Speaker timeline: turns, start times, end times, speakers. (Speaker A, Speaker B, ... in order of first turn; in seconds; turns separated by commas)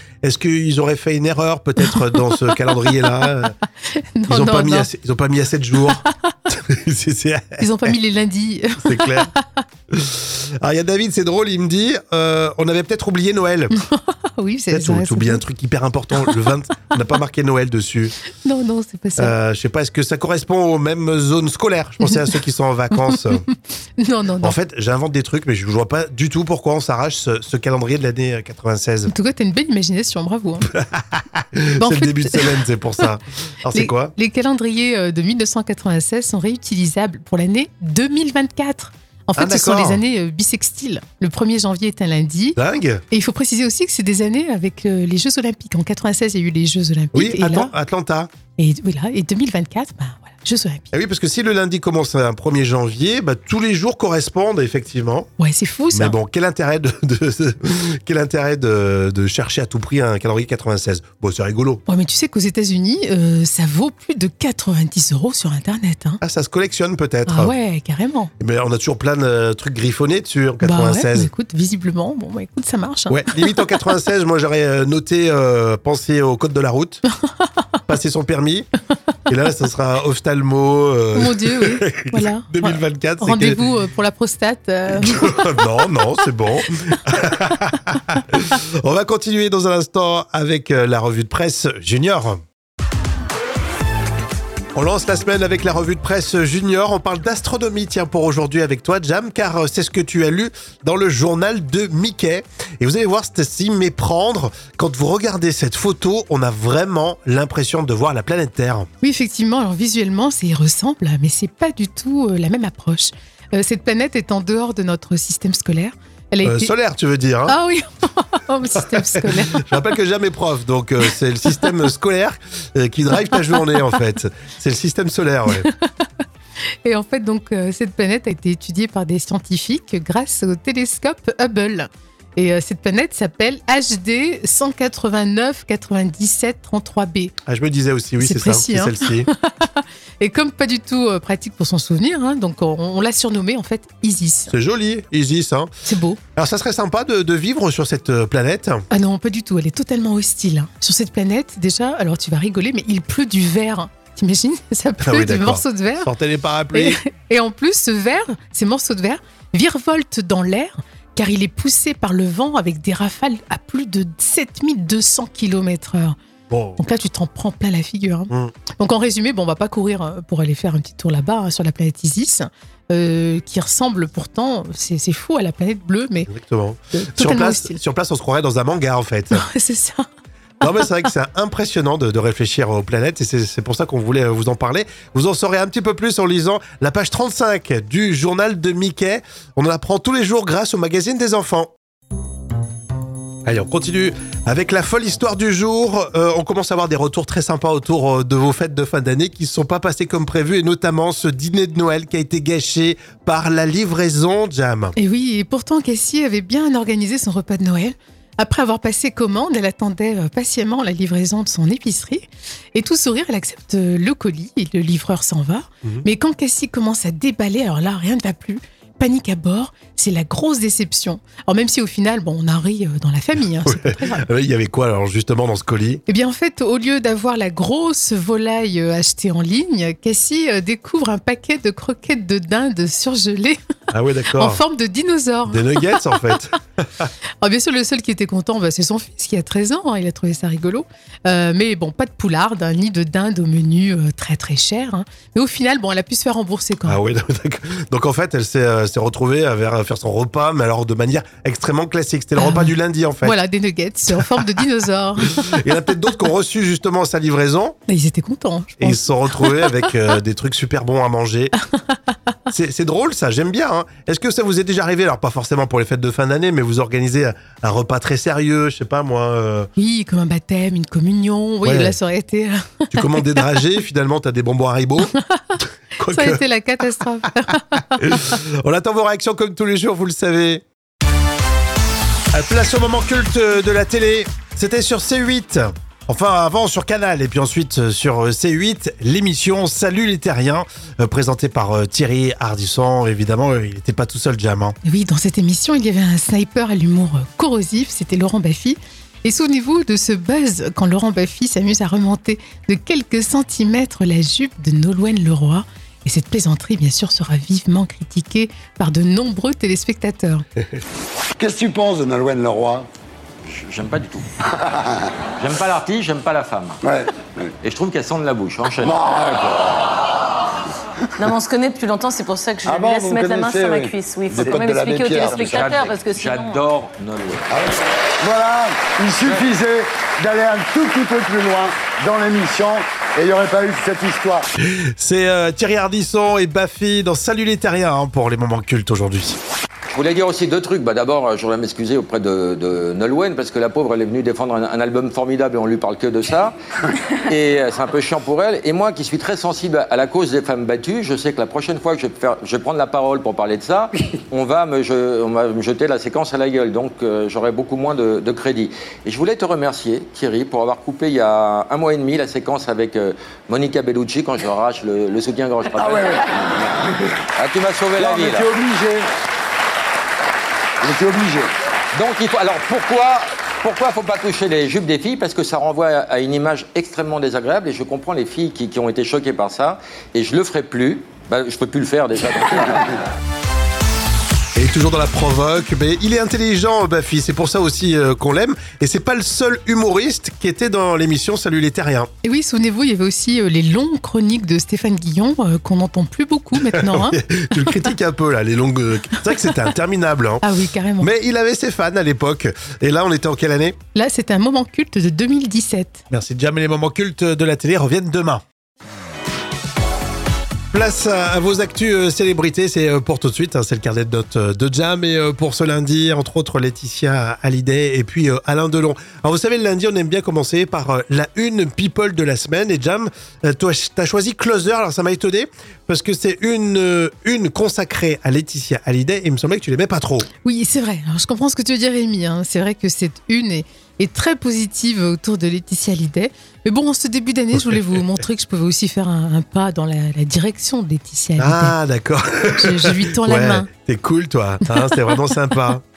Speaker A: 0.2-3.5, Speaker B: 1.8-4.9, Speaker A: 4.3-7.9, Speaker B: 5.8-6.3, Speaker B: 7.6-9.6, Speaker A: 8.8-9.3, Speaker A: 9.9-13.8, Speaker B: 13.7-15.4, Speaker A: 14.7-18.1, Speaker B: 18.4-19.3, Speaker A: 19.2-23.4, Speaker B: 22.9-24.6, Speaker A: 24.4-29.1, Speaker B: 29.1-30.7, Speaker A: 30.7-34.1, Speaker B: 31.8-32.5, Speaker B: 33.7-42.6, Speaker A: 39.4-40.0, Speaker A: 42.5-43.0, Speaker B: 43.1-47.7, Speaker A: 47.1-48.3, Speaker B: 48.6-50.9, Speaker A: 50.9-55.3, Speaker B: 55.4-56.1, Speaker A: 55.9-61.8, Speaker B: 61.9-66.2, Speaker A: 66.2-67.5, Speaker B: 67.2-68.3, Speaker A: 68.4-71.3, Speaker B: 70.6-73.6, Speaker A: 73.1-77.0, Speaker A: 77.9-78.7, Speaker A: 79.3-83.6, Speaker B: 81.1-85.9, Speaker A: 85.0-92.4, Speaker A: 94.7-108.9, Speaker B: 109.0-116.7, Speaker A: 116.4-117.6, Speaker B: 117.5-119.7, Speaker A: 118.8-125.7, Speaker B: 125.5-126.1, Speaker B: 126.8-137.3, Speaker A: 137.4-139.3, Speaker B: 138.2-144.5, Speaker A: 144.5-145.7, Speaker B: 145.8-146.2, Speaker A: 146.3-148.9, Speaker B: 148.9-156.1, Speaker A: 155.0-157.0, Speaker B: 156.7-166.2, Speaker A: 166.5-166.8, Speaker B: 166.8-176.3, Speaker A: 176.3-179.4, Speaker B: 176.9-177.8, Speaker B: 179.3-180.1, Speaker A: 180.6-191.7, Speaker B: 180.6-180.9, Speaker A: 193.4-204.9, Speaker B: 204.9-224.2, Speaker A: 223.6-226.0, Speaker B: 226.1-233.6, Speaker A: 233.9-234.6, Speaker B: 234.3-236.3, Speaker A: 235.5-237.1, Speaker B: 237.4-247.0, Speaker A: 246.9-253.4, Speaker B: 252.4-255.7, Speaker A: 254.2-254.4, Speaker A: 255.2-257.8, Speaker B: 257.9-259.9, Speaker A: 258.8-261.5, Speaker B: 261.7-262.0, Speaker A: 262.5-269.7, Speaker B: 269.8-273.4, Speaker A: 271.6-271.9, Speaker A: 272.9-275.1, Speaker B: 275.1-278.3, Speaker A: 276.0-276.4, Speaker A: 278.0-280.6, Speaker A: 282.3-294.8, Speaker B: 294.8-310.4, Speaker C: 311.4-312.9, Speaker D: 313.4-314.4, Speaker C: 314.6-315.1, Speaker D: 315.4-316.8, Speaker C: 316.8-317.5, Speaker D: 317.6-319.0, Speaker C: 318.8-319.9, Speaker E: 321.2-326.6, Speaker C: 322.6-325.8, Speaker D: 325.2-327.5, Speaker C: 327.5-334.5, Speaker D: 329.2-329.5, Speaker A: 334.6-339.4, Speaker D: 339.9-346.5, Speaker D: 347.1-366.3, Speaker C: 365.8-367.1, Speaker D: 367.4-368.5, Speaker C: 368.0-369.1, Speaker C: 370.8-371.5, Speaker D: 371.9-383.0, Speaker A: 384.5-392.1, Speaker B: 392.2-397.7, Speaker A: 396.6-400.4, Speaker B: 400.4-401.1, Speaker A: 401.0-403.8, Speaker B: 403.9-406.0, Speaker A: 406.1-408.4, Speaker A: 410.7-430.3, Speaker B: 430.4-441.8, Speaker A: 437.7-437.9, Speaker A: 441.4-445.8, Speaker B: 442.5-443.7, Speaker B: 444.6-445.3